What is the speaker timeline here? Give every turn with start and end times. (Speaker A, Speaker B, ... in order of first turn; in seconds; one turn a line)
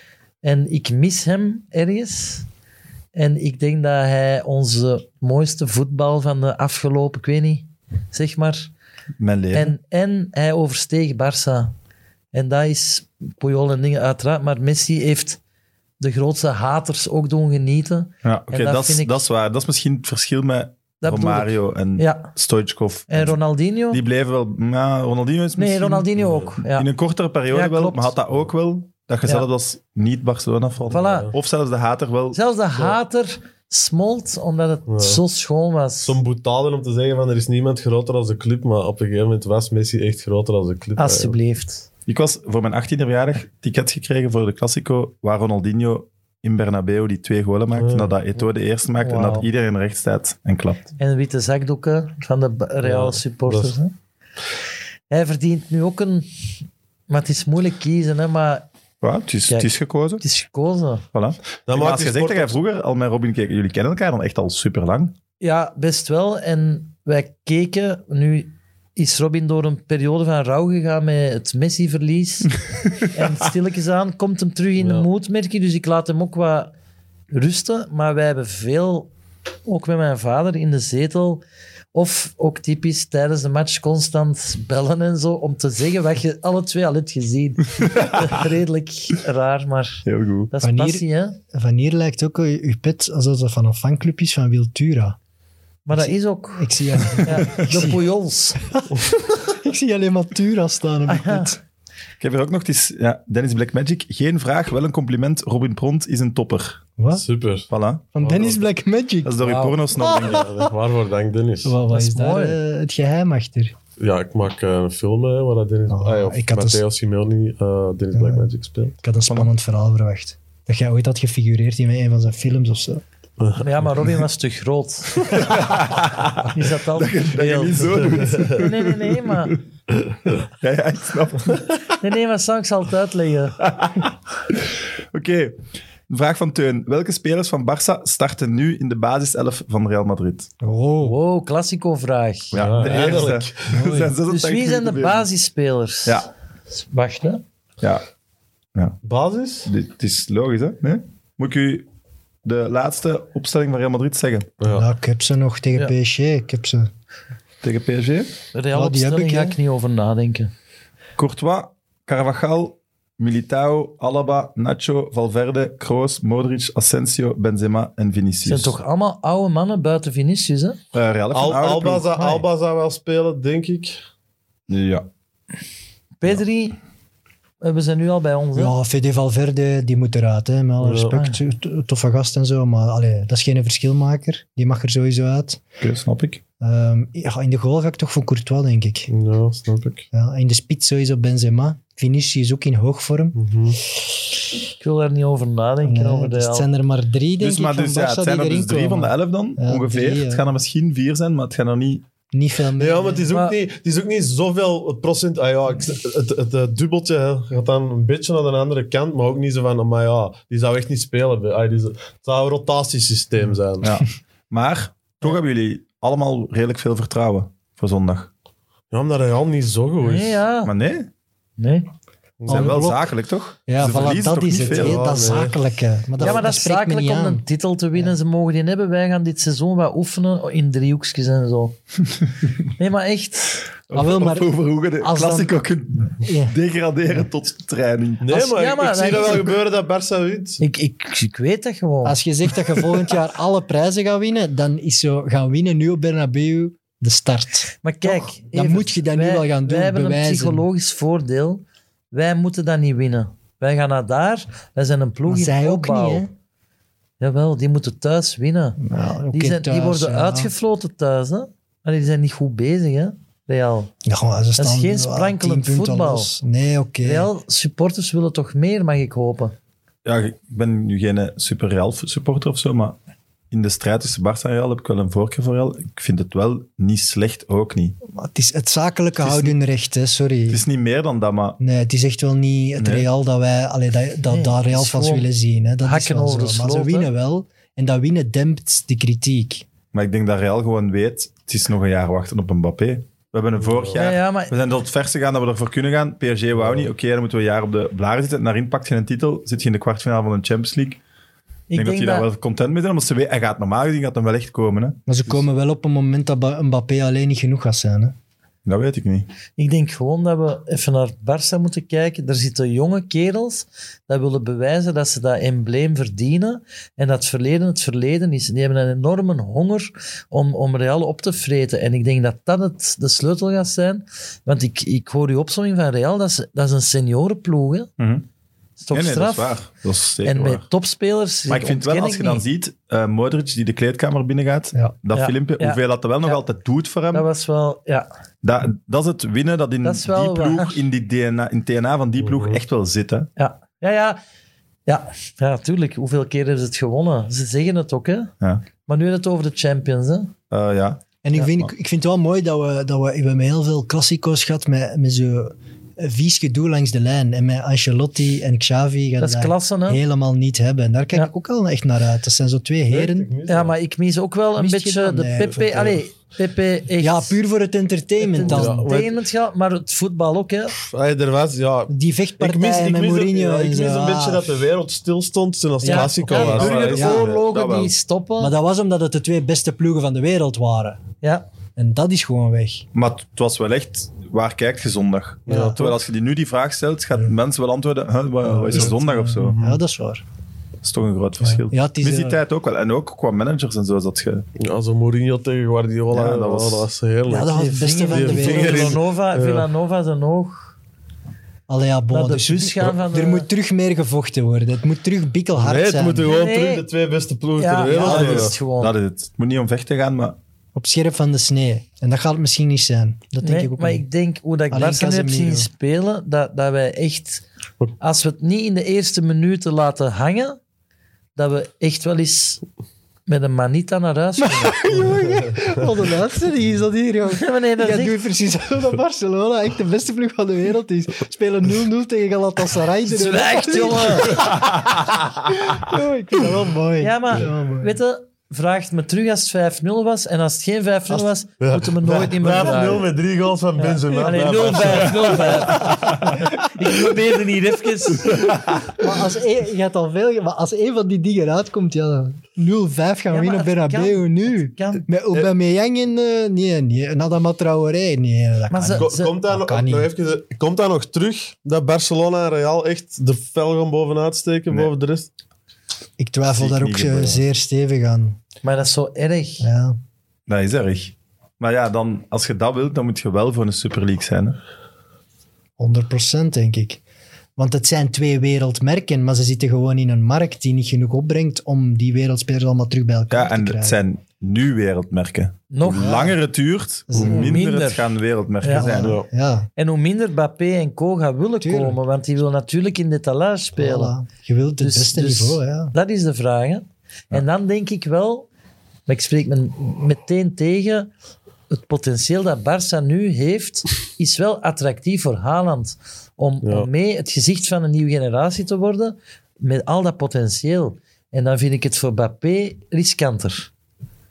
Speaker A: 0.4-2.5
Speaker A: 3.1-8.7
Speaker B: 9.2-9.7
Speaker A: 9.5-11.7
Speaker A: 12.3-15.4
Speaker A: 16.0-19.2
Speaker B: 18.2-23.4
Speaker A: 21.0-22.3
Speaker A: 23.1-24.0
Speaker B: 23.9-26.1
Speaker A: 25.6-26.9
Speaker C: 26.2-26.5
Speaker B: 26.6-32.4
Speaker A: 27.5-28.1
Speaker C: 30.9-31.3
Speaker A: 30.9-31.3
Speaker A: 32.3-36.2
Speaker C: 34.9-35.2
Speaker C: 36.0-41.4
Speaker A: 41.0-41.8
Speaker B: 42.1-50.9
Speaker C: 47.8-48.1
Speaker A: 49.0-49.5
Speaker A: 51.0-53.9
Speaker C: 52.8-53.8
Speaker A: 55.1-56.3
Speaker A: 57.1-58.6
Speaker B: 59.0-60.2
Speaker A: 59.5-61.0
Speaker B: 61.1-65.1
Speaker C: 61.7-62.6
Speaker A: 65.4-76.7
Speaker C: 74.8-75.1
Speaker A: 77.3-79.1
Speaker A: 79.7-81.4
Speaker A: 81.9-91.3
Speaker B: 90.0-90.5
Speaker D: 90.6-95.2
Speaker A: 95.8-96.7
Speaker D: 95.9-98.0
Speaker A: 97.2-98.7
Speaker D: 99.5-101.6
Speaker A: 101.1-101.5
Speaker B: 102.2-106.8
Speaker D: 107.0-107.2
Speaker C: 107.1-107.7
Speaker B: 107.7-108.0
Speaker D: 108.1-110.7
Speaker C: 108.2-108.6
Speaker B: 109.2-110.5
Speaker A: 109.4-109.7
Speaker C: 110.0-111.8
Speaker D: 111.6-113.7
Speaker A: 111.9-112.6
Speaker C: 114.0-119.0
Speaker D: 115.9-116.8
Speaker D: 118.1-118.5
Speaker D: 119.0-123.0
Speaker C: 123.4-124.0
Speaker A: 123.6-125.7
Speaker B: 125.4-129.6
Speaker A: 126.5-129.6
Speaker B: 130.4-131.7
Speaker A: 132.0-133.6
Speaker B: 133.6-134.1
Speaker B: 135.1-135.6
Speaker B: 136.1-140.5
Speaker D: 140.6-141.2
Speaker A: 141.0-142.6
Speaker B: 142.5-145.2
Speaker C: 142.5-143.8
Speaker D: 143.7-144.1
Speaker A: 144.2-147.4
Speaker C: 149.0-149.7
Speaker B: 149.6-151.9
Speaker B: 152.4-154.5
Speaker C: 154.6-154.8
Speaker D: 154.7-156.9
Speaker B: 157.6-158.3
Speaker A: 158.5-160.5
Speaker D: 158.7-159.6
Speaker B: 161.2-168.8
Speaker A: 168.4-170.8
Speaker B: 170.9-172.1
Speaker C: 171.3-174.0
Speaker B: 174.7-175.1
Speaker A: 176.2-176.8
Speaker A: 177.6-178.7
Speaker D: 178.5-185.6
Speaker C: 180.8-181.2
Speaker B: 185.8-186.4
Speaker D: 186.6-189.1
Speaker C: 189.1-190.0
Speaker D: 190.1-193.3
Speaker C: 193.3-193.8
Speaker A: 194.8-196.7
Speaker D: 195.8-200.4
Speaker B: 197.4-202.0
Speaker D: 202.3-203.3
Speaker C: 202.8-213.9
Speaker B: 213.8-218.3
Speaker C: 218.9-220.4
Speaker A: 220.0-220.7
Speaker B: 220.6-221.1
Speaker A: 221.6-221.9
Speaker C: 222.4-222.8
Speaker D: 222.5-223.1
Speaker B: 222.5-225.0
Speaker D: 223.7-227.4
Speaker C: 224.6-225.6
Speaker A: 226.2-231.8
Speaker C: 226.2-226.4
Speaker A: 232.8-233.6
Speaker B: 233.9-238.3
Speaker D: 233.9-235.5
Speaker D: 236.2-236.6
Speaker C: 238.2-240.6
Speaker A: 238.3-239.5
Speaker A: 240.6-242.2
Speaker D: 242.0-250.7
Speaker A: 247.8-256.2
Speaker D: 255.2-256.3
Speaker A: 257.2-258.8
Speaker D: 258.8-260.5
Speaker A: 259.3-263.9
Speaker D: 264.0-267.3
Speaker A: 264.6-266.3
Speaker A: 267.0-269.5
Speaker B: 270.0-272.9
Speaker B: 273.5-277.9
Speaker D: 278.1-280.6
Speaker B: 279.2-279.5
Speaker B: 280.5-281.6
Speaker D: 281.6-289.6
Speaker B: 282.8-283.1
Speaker A: 284.3-285.3
Speaker A: 285.8-287.1
Speaker B: 289.9-301.0
Speaker C: 293.6-294.0
Speaker A: 293.9-294.5
Speaker C: 296.6-296.9
Speaker A: 301.7-302.3
Speaker B: 301.7-305.0
Speaker D: 305.1-308.1
Speaker B: 308.6-309.3
Speaker A: 309.6-327.9
Speaker B: 328.0-328.2
Speaker A: 328.8-329.5
Speaker B: 328.9-330.6
Speaker A: 330.2-332.4
Speaker B: 331.5-337.3
Speaker A: 335.1-336.4
Speaker A: 337.1-338.1
Speaker B: 338.4-343.3
Speaker A: 339.8-340.8
Speaker C: 342.2-342.6
Speaker A: 343.4-344.2
Speaker A: 344.9-348.3
Speaker A: 348.8-350.3
Speaker B: 350.5-351.7
Speaker D: 351.2-363.3
Speaker A: 359.2-360.0
Speaker C: 362.9-363.7
Speaker A: 363.5-367.3
Speaker D: 364.6-366.0
Speaker D: 367.0-368.9
Speaker A: 368.2-370.8
Speaker C: 368.4-369.2
Speaker C: 370.8-377.4
Speaker D: 371.9-374.6
Speaker D: 375.8-377.3
Speaker A: 375.8-378.5
Speaker B: 376.4-377.9
Speaker D: 378.4-381.0
Speaker D: 381.8-382.9
Speaker B: 382.9-389.6
Speaker C: 385.5-385.9
Speaker D: 385.5-385.9
Speaker D: 388.4-390.2
Speaker C: 388.7-389.8
Speaker B: 390.8-394.4
Speaker D: 391.4-392.4
Speaker C: 394.6-399.7
Speaker B: 396.1-396.9
Speaker D: 397.3-399.0
Speaker A: 397.7-400.7
Speaker D: 401.7-406.3
Speaker A: 402.1-403.5
Speaker C: 405.6-408.5
Speaker A: 406.2-406.9
Speaker A: 407.6-408.9
Speaker D: 408.0-408.4
Speaker B: 408.1-410.4
Speaker D: 410.7-414.0
Speaker A: 413.4-417.4
Speaker D: 414.7-415.7
Speaker A: 418.0-420.6
Speaker A: 421.4-422.6
Speaker A: 423.3-425.0
Speaker D: 424.4-434.8
Speaker A: 427.3-428.2
Speaker A: 433.0-434.5
Speaker B: 434.4-435.1
Speaker D: 435.7-438.0
Speaker A: 437.0-443.1
Speaker C: 441.6-445.8
Speaker A: 443.8-448.6
Speaker B: 445.7-446.4
Speaker B: 448.3-448.9
Speaker D: 448.9-460.1
Speaker A: 453.3-455.1
Speaker A: 458.7-459.4
Speaker C: 458.9-465.3
Speaker D: 466.2-468.4
Speaker B: 466.5-467.4
Speaker A: 468.6-469.7
Speaker D: 469.6-470.0
Speaker B: 470.5-474.6
Speaker D: 475.8-477.0
Speaker D: 477.6-484.0
Speaker B: 483.3-489.2
Speaker A: 485.7-486.3
Speaker D: 487.1-487.6
Speaker A: 487.2-488.1
Speaker A: 488.6-489.0
Speaker D: 488.7-489.7
Speaker C: 489.0-489.3
Speaker A: 489.8-494.1
Speaker D: 491.6-492.0
Speaker D: 493.7-495.9
Speaker A: 494.8-498.5
Speaker A: 499.1-501.1
Speaker A: 501.7-513.7
Speaker C: 506.6-506.9